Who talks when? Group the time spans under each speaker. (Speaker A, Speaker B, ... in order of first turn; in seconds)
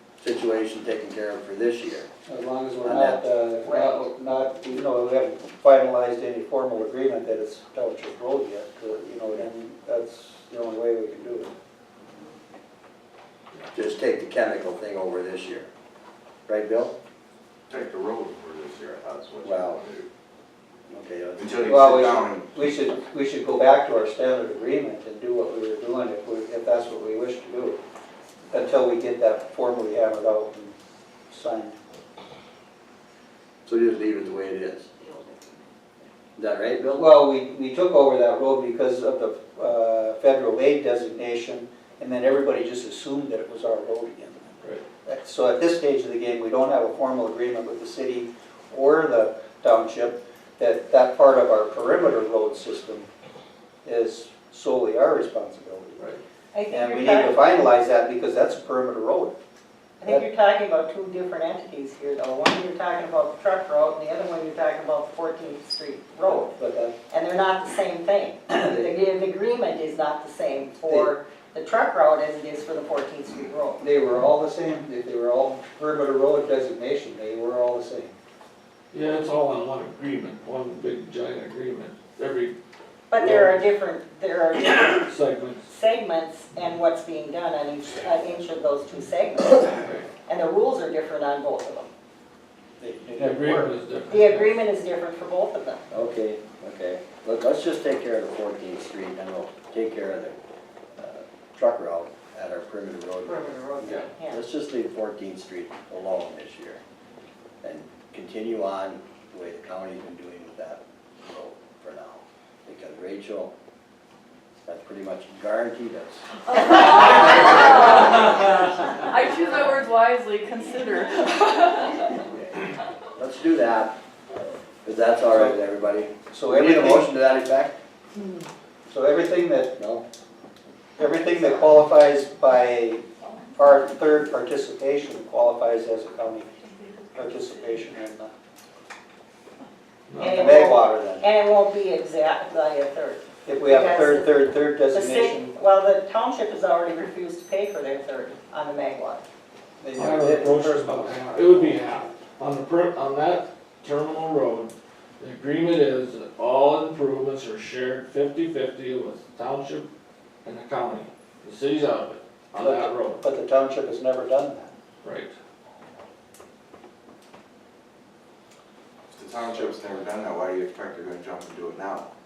Speaker A: 0.2-2.1, 2.8-3.2, 13.7-15.7, 16.5-16.9, 19.4-19.8, 20.9-22.0, 33.6-34.9, 36.4-37.1, 95.9-100.3, 101.0-106.8, 107.6-113.5, 114.6-116.2, 117.0-117.8, 123.2-124.0, 124.8-127.8, 129.8-130.0
Speaker B: 2.3-11.5, 21.6-27.8, 28.5-30.7, 31.3-31.8, 36.9-53.1, 53.8-56.0, 56.7-59.4, 66.2-66.9, 68.5-68.8, 70.8-71.1, 73.8-78.1, 92.8-93.8, 125.3-125.6, 126.3-127.1, 128.9-129.8, 131.0-136.5, 137.1-138.3, 140.2-141.2, 143.4-145.5, 149.8-151.8, 162.6-164.7
Speaker C: 3.6-4.1, 35.1-35.4, 56.5-57.5, 60.0-66.5, 67.1-73.8, 83.1-85.1, 85.6-91.9, 94.1-95.8, 103.2-104.4, 140.2-149.2
Speaker D: 17.7-20.1, 21.4-22.6, 169.1-172.1
Speaker E: 78.9-82.5, 83.2-83.6, 85.0-85.6, 89.8-90.0, 93.2-94.6, 140.1-140.6, 149.9-159.9, 160.4-163.2, 165.0-165.3
Speaker F: 116.6-122.1